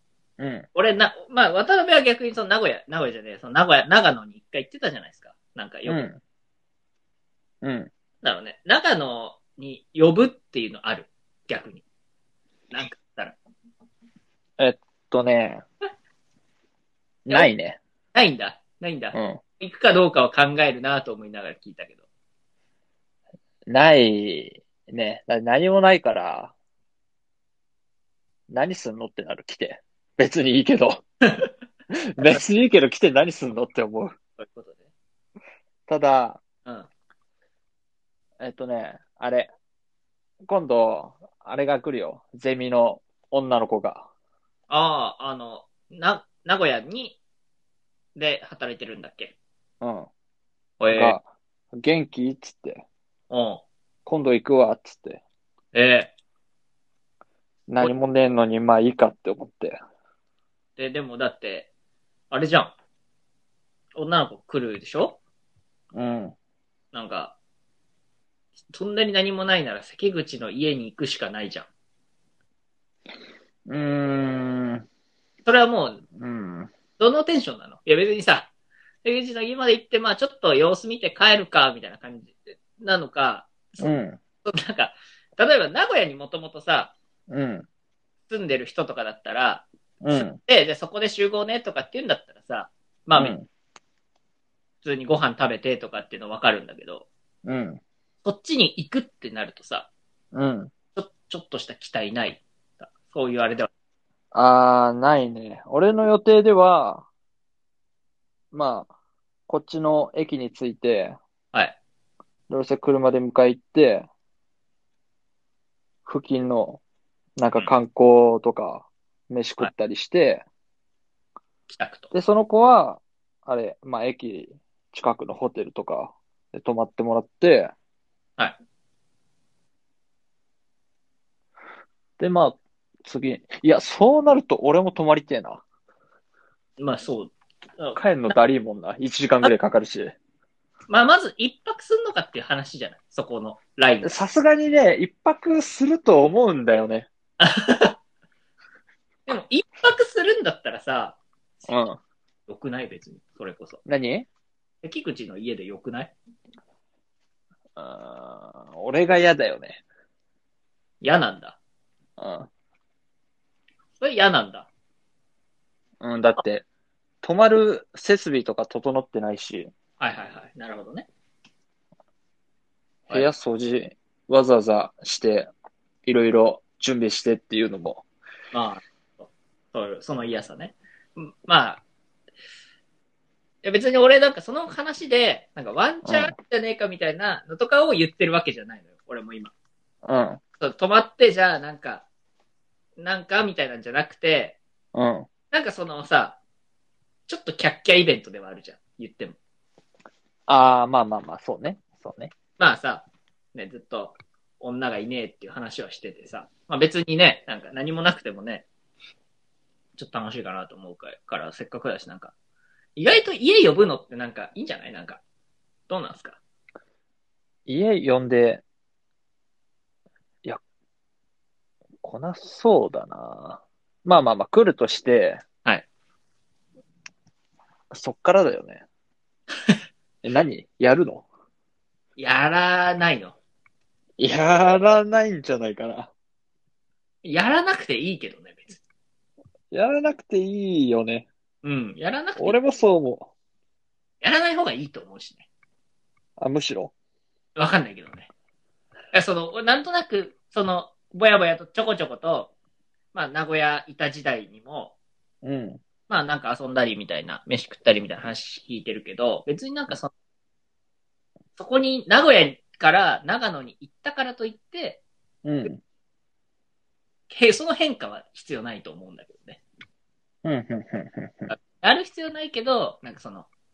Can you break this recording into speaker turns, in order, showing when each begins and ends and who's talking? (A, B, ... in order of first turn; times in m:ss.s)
0:00.4-0:00.7 A
0:00.7-0:06.0 B
0:05.9-0:06.2 A
0:07.6-0:07.9 A
0:08.2-0:11.8 B
0:12.7-0:13.4 B
0:14.6-0:15.6 A
0:17.3-0:17.8 A
0:18.1-0:22.0 B
0:19.1-0:19.4 A
0:23.7-0:26.5 A
0:28.5-0:31.0 A
0:31.9-0:34.1 A
0:34.4-0:34.9 B
0:35.9-0:36.4 A
0:38.4-0:39.5 A
0:40.4-0:44.1 A
0:44.7-0:47.2 B
0:48.2-0:49.4 B
0:49.8-0:50.1 A
0:50.8-0:51.2 B
0:50.9-0:52.8 A
0:53.3-0:53.6 B
0:54.1-0:55.2 A
0:55.7-0:56.1 B
0:57.7-0:59.8 A
1:00.8-1:01.7 B
1:02.3-1:02.7 B
1:04.0-1:05.2 B
1:05.9-1:06.4 A
1:06.9-1:07.4 B
1:08.7-1:11.7 B
1:13.7-1:14.8 A
1:15.4-1:16.0 B
1:16.2-1:16.7 A
1:17.0-1:18.5 B
1:19.0-1:23.9 B
1:23.8-1:24.2 A
1:24.4-1:26.9 B
1:27.3-1:27.7 A
1:28.3-1:33.4 B
1:30.0-1:30.4 A
1:33.2-1:33.5 A
1:34.8-1:37.1 B
1:37.4-1:37.8 A
1:38.2-1:39.9 B
1:40.3-1:40.7 A
1:41.0-1:43.7 B
1:44.3-1:47.1 A
1:48.5-1:48.9 A
1:49.5-1:51.2 A
1:52.5-1:54.1 A
1:56.1-1:56.8 A
1:57.4-2:00.4 A
2:01.7-2:02.1 B
2:02.1-2:07.7 A
2:12.2-2:15.6 A
2:16.8-2:18.0 B
2:18.0-2:20.2 A
2:20.9-2:24.2 B
2:24.0-2:27.1 A
2:27.4-2:28.0 B
2:29.3-2:31.2 B
2:31.7-2:32.0 A
2:32.5-2:33.8 B
2:33.9-2:34.3 A
2:34.8-2:36.1 B
2:37.8-2:39.8 A
2:41.0-2:41.6 B
2:42.2-2:42.5 A
2:44.0-2:44.7 B
2:46.0-2:46.6 A
2:47.2-2:49.7 A
2:50.0-2:51.1 B
2:53.1-2:55.5 A
2:56.1-2:58.0 A
2:58.5-3:01.8 B
3:03.6-3:09.5 B
3:06.0-3:06.3 A
3:10.0-3:10.4 A
3:10.6-3:12.0 B
3:13.0-3:14.6 B
3:14.9-3:15.3 A
3:15.5-3:16.4 B
3:17.3-3:19.4 B
3:20.5-3:22.3 A
3:22.6-3:28.7 B
3:30.0-3:32.3 B
3:33.0-3:35.2 B
3:35.9-3:36.4 B
3:37.7-3:38.6 A
3:42.0-3:45.4 A
3:47.9-3:48.8 A
3:50.2-3:51.2 A
3:52.2-3:53.4 B
3:54.2-3:56.1 A
3:57.2-3:58.8 B
3:59.7-4:01.3 A
4:01.6-4:02.6 B
4:02.4-4:03.3 A
4:04.2-4:05.5 B
4:06.4-4:06.9 A
4:07.6-4:08.3 B
4:09.1-4:12.5 B
4:13.1-4:15.0 B
4:15.4-4:15.8 A
4:16.1-4:20.1 B
4:21.6-4:25.0 B
4:25.4-4:25.8 A
4:27.3-4:29.6 B
4:30.4-4:31.5 A
4:31.5-4:33.5 B